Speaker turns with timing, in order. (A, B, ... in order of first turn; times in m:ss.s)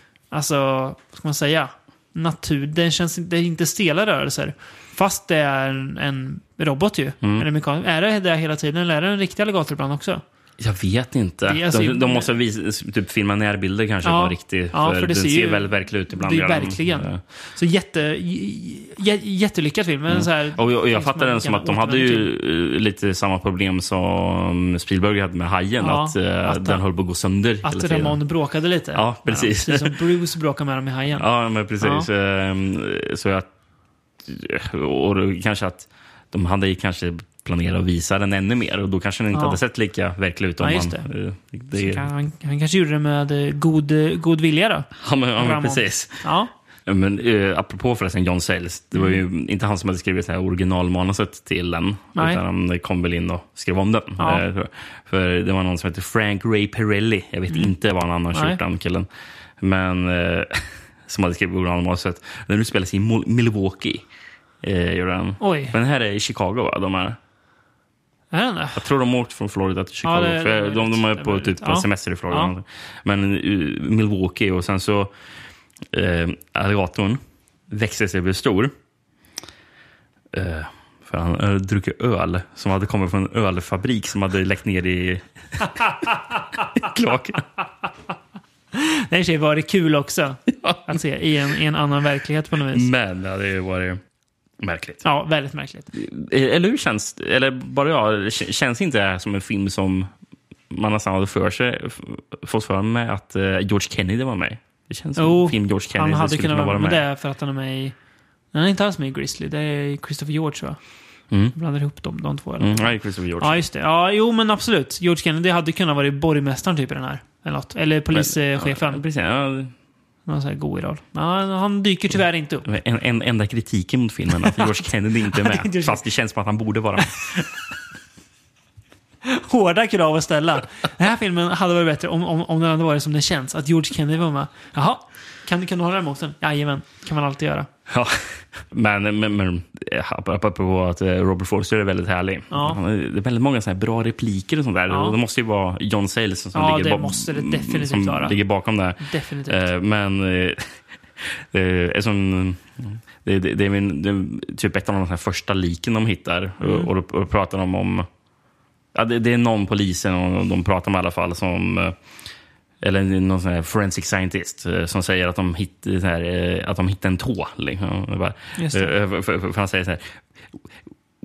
0:00.3-0:10.2 A
0:10.6-0:17.2 B
0:11.4-0:12.3 A
0:14.0-0:22.3 A
0:20.1-0:28.2 B
0:25.8-0:26.8 A
0:27.6-0:31.2 A
0:28.9-0:30.0 B
0:31.2-0:33.5 B
0:31.8-0:32.1 A
0:34.2-0:42.1 B
0:39.3-0:39.6 A
0:40.6-0:41.1 A
0:41.7-0:46.5 A
0:45.0-0:46.2 B
0:46.8-0:59.1 B
0:48.9-0:49.2 A
0:52.1-0:52.4 A
0:54.2-0:54.4 A
0:58.3-0:58.6 A
0:59.6-1:04.0 B
1:04.6-1:07.2 B
1:05.4-1:05.7 A
1:08.3-1:08.8 A
1:08.8-1:15.1 B
1:10.0-1:12.5 A
1:15.9-1:18.7 B
1:20.3-1:26.0 B
1:26.7-1:27.4 B
1:28.7-1:32.9 A
1:30.6-1:31.0 B
1:32.7-1:34.0 B
1:34.6-1:35.0 B
1:35.0-1:35.9 A
1:35.9-1:40.1 B
1:40.7-1:47.0 B
1:45.2-1:47.9 A
1:48.5-1:50.8 A
1:51.5-1:59.0 A
1:52.6-1:53.6 B
1:58.1-1:59.7 B
2:00.3-2:02.6 A
2:02.6-2:07.5 B
2:04.4-2:04.7 A
2:05.3-2:06.0 A
2:09.2-2:17.7 A
2:17.9-2:38.1 B
2:22.5-2:22.8 A
2:24.9-2:25.2 A
2:26.5-2:28.4 A
2:29.0-2:29.7 A
2:36.6-2:36.9 A
2:38.9-2:42.0 B
2:42.8-2:50.6 B
2:48.6-2:48.9 A